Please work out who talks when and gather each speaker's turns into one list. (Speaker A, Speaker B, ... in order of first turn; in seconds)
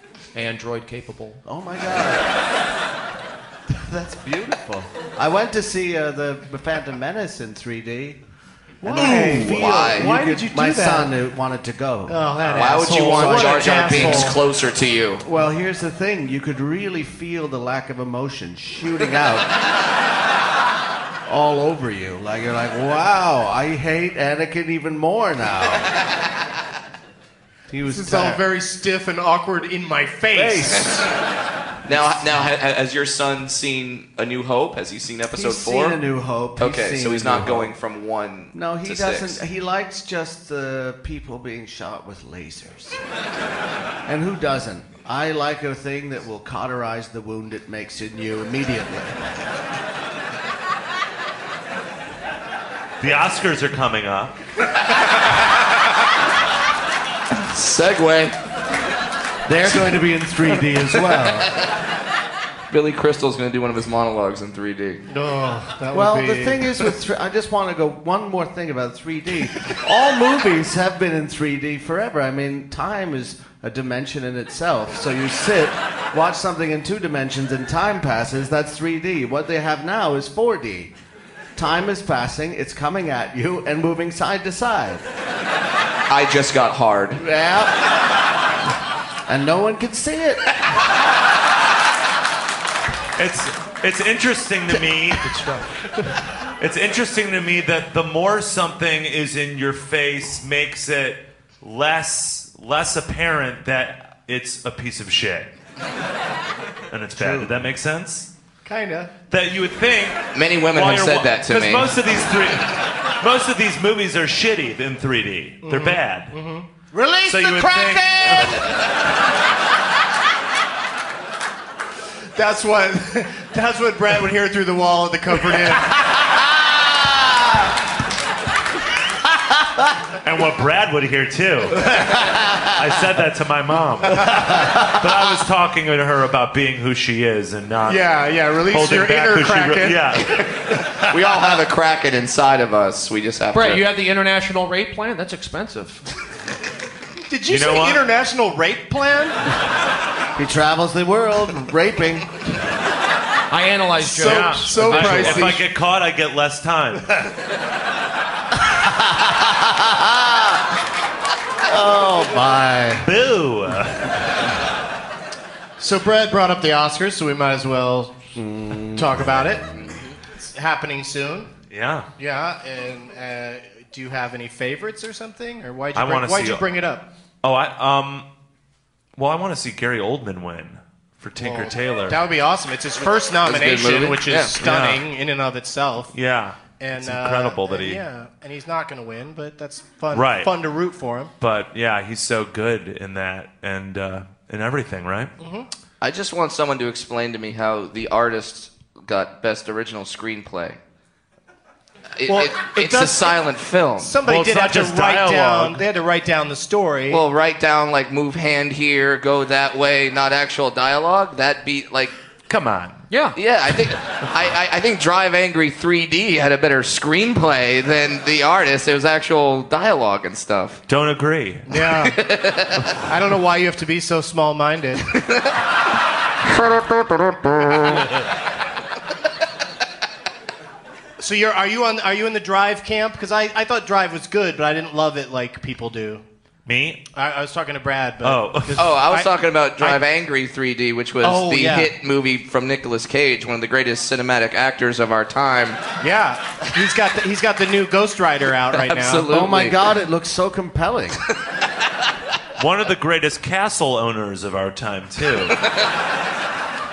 Speaker A: 0.3-1.4, 95.2-95.8, 143.5-146.0, 153.5-155.6, 213.1-213.4
Speaker B: 1.4-2.4, 3.7-8.2, 8.8-14.3, 15.2-19.5, 21.2-25.9, 27.7-28.4, 30.3-31.0, 31.9-32.2, 35.3-37.7, 38.5-43.0, 44.0-49.3, 59.5-61.5, 65.9-80.9, 81.5-85.0, 87.2-87.7, 89.3-90.4, 107.1-107.7, 116.9-118.6, 126.1-127.6, 131.9-132.7, 134.3-135.2, 150.3-152.3, 158.6-160.6, 161.6-163.1, 168.3-169.7, 249.3-251.2
Speaker C: 8.8-11.1, 12.1-14.4, 27.9-31.1, 65.1-66.9, 108.6-109.1, 115.6-116.7, 122.3-125.9, 137.8-140.0, 147.3-149.4, 154.0-155.6, 165.8-168.2, 168.9-169.6, 170.5-171.5, 172.2-177.0, 181.4-186.1, 186.8-191.3, 195.4-195.7, 202.2-203.3, 204.0-207.2, 221.7-222.2, 223.0-225.0, 231.2-236.2, 237.1-240.0, 241.2-241.9, 246.0-249.3
Speaker D: 9.0-10.1, 12.5-15.2, 31.9-36.0, 36.6-39.4, 57.4-58.3, 62.7-65.0, 86.1-87.2, 110.3-111.9, 140.3-143.9, 183.4-184.5, 196.0-200.8, 202.2-204.1, 207.1-212.2, 213.3-220.8, 222.1-222.8, 225.1-225.5, 226.6-228.0, 238.8-245.8, 248.7-249.8
Speaker E: 53.0-54.3, 93.2-95.3, 96.6-105.5, 106.9-108.3, 109.3-116.3, 117.2-118.6, 130.2-140.4, 147.5-148.0, 154.2-157.3, 163.0-164.3, 171.7-172.1, 175.9-176.7, 177.4-178.2, 179.2-182.2, 184.6-185.1, 186.1-188.0, 190.1-190.5, 191.4-195.3, 204.2-205.8, 212.5-213.1, 220.9-221.7, 236.7-237.0, 238.2-238.9, 252.6-255.6